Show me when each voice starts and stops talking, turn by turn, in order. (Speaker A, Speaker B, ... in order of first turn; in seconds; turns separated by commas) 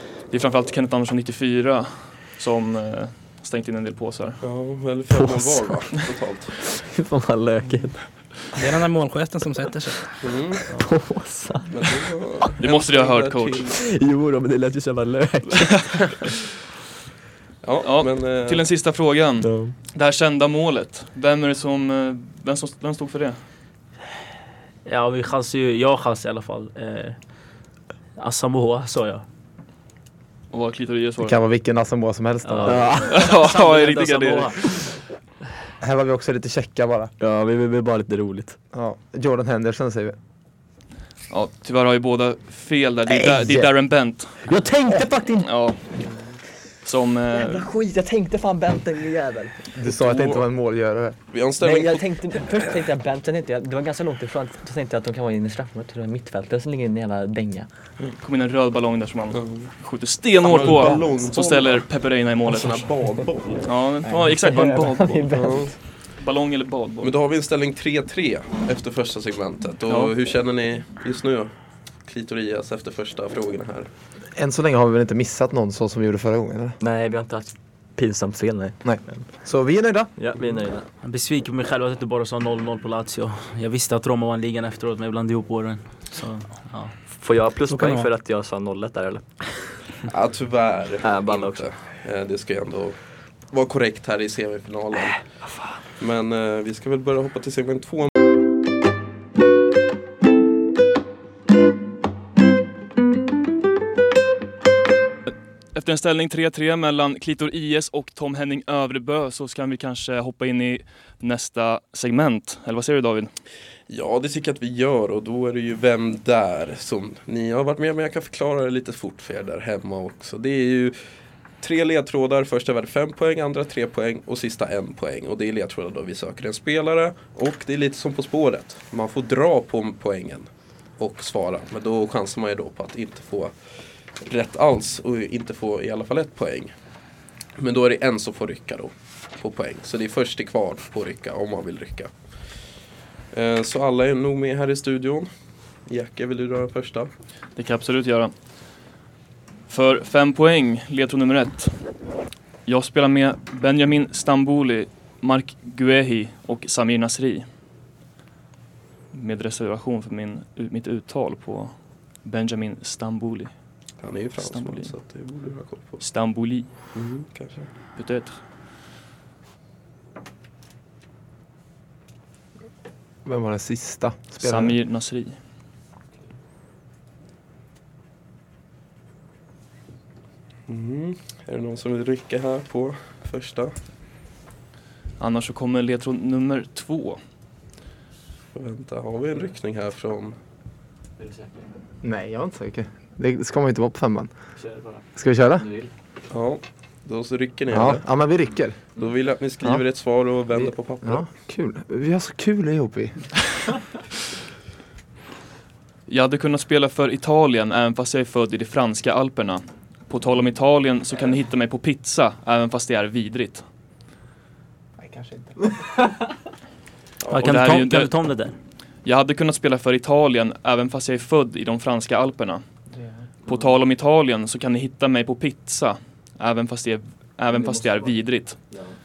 Speaker A: 0.3-4.4, Speaker B: 4.4-6.5, Speaker C: 5.1-5.8, Speaker C: 6.6-8.0, Speaker D: 8.6-10.1, Speaker B: 10.2-10.7, Speaker C: 10.7-12.5, Speaker B: 11.7-13.8, Speaker A: 12.6-13.7, Speaker C: 13.7-16.4, Speaker B: 17.6-18.7, Speaker A: 17.8-23.4, Speaker C: 19.4-19.8, Speaker E: 24.9-27.2, Speaker E: 28.2-29.2, Speaker A: 30.5-31.4, Speaker F: 31.2-33.1, Speaker E: 32.5-34.8, Speaker C: 32.6-33.2, Speaker A: 33.1-34.9, Speaker F: 35.8-37.1, Speaker C: 37.2-38.6, Speaker F: 38.7-40.2, Speaker A: 41.3-44.4, Speaker C: 44.4-45.5, Speaker A: 45.4-45.8, Speaker A: 46.8-47.7, Speaker C: 47.3-49.6, Speaker F: 49.8-51.2, Speaker B: 49.9-50.4, Speaker B: 51.3-52.1, Speaker C: 51.6-57.7, Speaker A: 58.2-62.9, Speaker B: 59.3-59.7, Speaker B: 60.4-61.9, Speaker C: 60.6-61.0, Speaker B: 62.5-63.7, Speaker A: 63.6-65.3, Speaker C: 64.0-65.8, Speaker B: 65.3-65.7, Speaker A: 66.2-67.2, Speaker B: 67.0-71.5, Speaker A: 69.9-70.1, Speaker B: 72.0-73.9, Speaker F: 74.3-76.8, Speaker C: 76.8-79.3, Speaker F: 78.8-80.1, Speaker C: 80.2-80.9, Speaker E: 81.0-86.9, Speaker C: 87.1-89.2, Speaker D: 87.7-88.1, Speaker B: 90.0-93.0, Speaker C: 91.0-91.6, Speaker B: 93.5-95.2, Speaker B: 96.0-98.1, Speaker A: 105.8-113.3, Speaker B: 113.9-121.0, Speaker B: 121.6-133.5, Speaker B: 134.2-136.7, Speaker B: 137.6-142.1, Speaker B: 143.3-145.3, Speaker B: 145.9-147.1, Speaker A: 147.6-148.3, Speaker A: 149.7-151.8, Speaker A: 152.7-157.5, Speaker A: 159.1-161.7, Speaker A: 162.2-163.5, Speaker B: 164.0-166.0, Speaker A: 164.4-164.9, Speaker A: 166.0-166.7, Speaker B: 166.9-167.7, Speaker A: 168.0-168.4, Speaker F: 173.2-174.8, Speaker A: 174.4-175.4, Speaker B: 180.7-183.8, Speaker A: 185.2-187.2, Speaker B: 188.5-190.4, Speaker F: 192.0-194.3, Speaker C: 194.6-195.0, Speaker F: 195.2-195.7, Speaker B: 196.3-198.1, Speaker F: 197.7-198.8, Speaker B: 199.0-201.2, Speaker F: 200.5-203.3, Speaker A: 206.1-213.7, Speaker F: 215.0-215.7, Speaker E: 217.3-218.6, Speaker A: 217.3-218.1, Speaker A: 219.0-222.6, Speaker A: 223.5-228.7, Speaker C: 227.5-228.0, Speaker C: 228.7-229.0